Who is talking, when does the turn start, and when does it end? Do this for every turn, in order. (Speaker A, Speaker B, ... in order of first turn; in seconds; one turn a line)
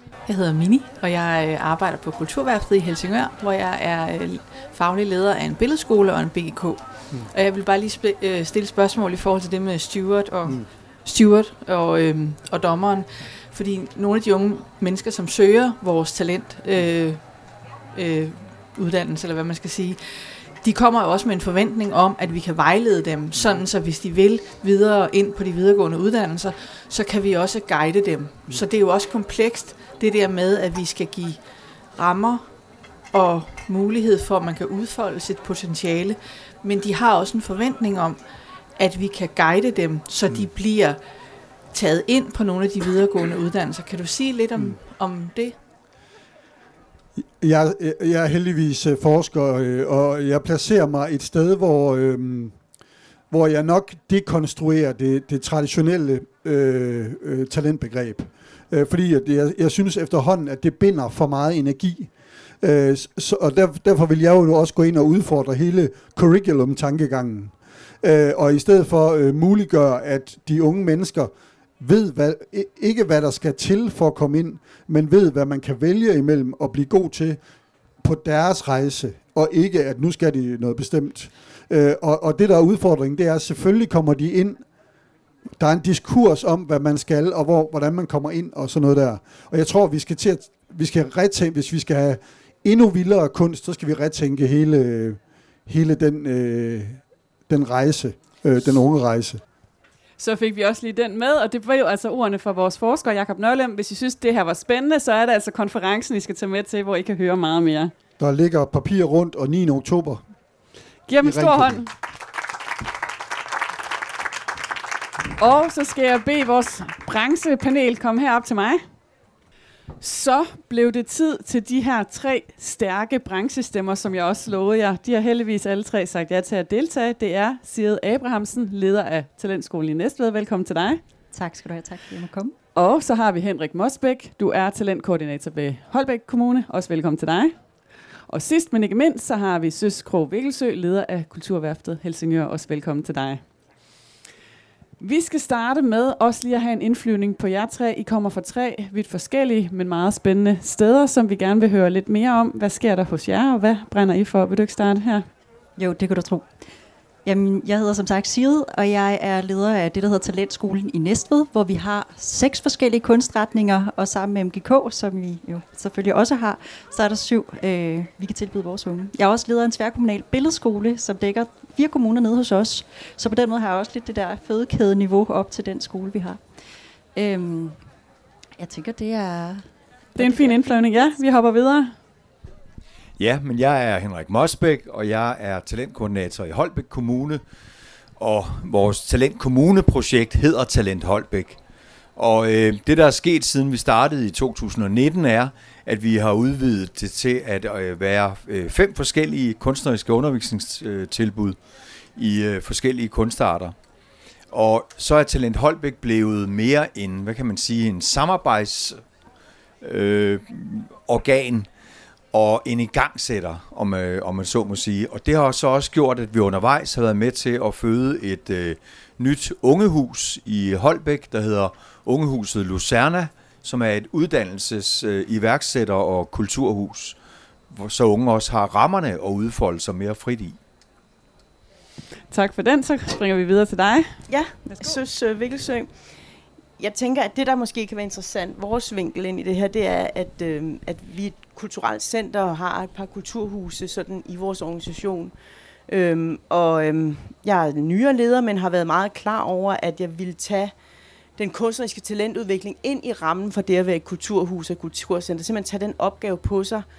Speaker A: 0.2-41.0
Speaker B: 23.3-23.7
Speaker B: 40.3-40.5
Speaker A: 41.7-45.6
Speaker B: 47.4-52.5
Speaker B: 53.3-62.1
Speaker B: 62.6-77.4
Speaker B: 78.0-84.6
Speaker B: 85.6-99.4
Speaker C: 100.2-107.9
Speaker B: 108.2-110.2
Speaker C: 111.1-111.9
Speaker B: 111.2-111.8
Speaker C: 115.4-118.8
Speaker C: 120.0-131.0
Speaker D: 131.3-132.5
Speaker C: 132.7-137.5
Speaker C: 138.3-143.4
Speaker C: 145.0-155.2
Speaker D: 155.8-156.4
Speaker D: 157.2-176.4
Speaker D: 177.1-177.8
Speaker D: 178.6-181.2
Speaker C: 180.2-181.9
Speaker E: 183.2-187.4
Speaker E: 188.2-191.6
Speaker E: 192.2-201.6
Speaker E: 202.2-203.7
Speaker E: 204.5-209.0
Speaker E: 209.8-211.7
Speaker E: 212.3-227.2
Speaker E: 227.7-230.6
Speaker C: 232.3-234.9
Speaker F: 234.3-235.9
Speaker F: 236.8-245.3
Speaker F: 245.9-250.7
Speaker F: 251.4-256.9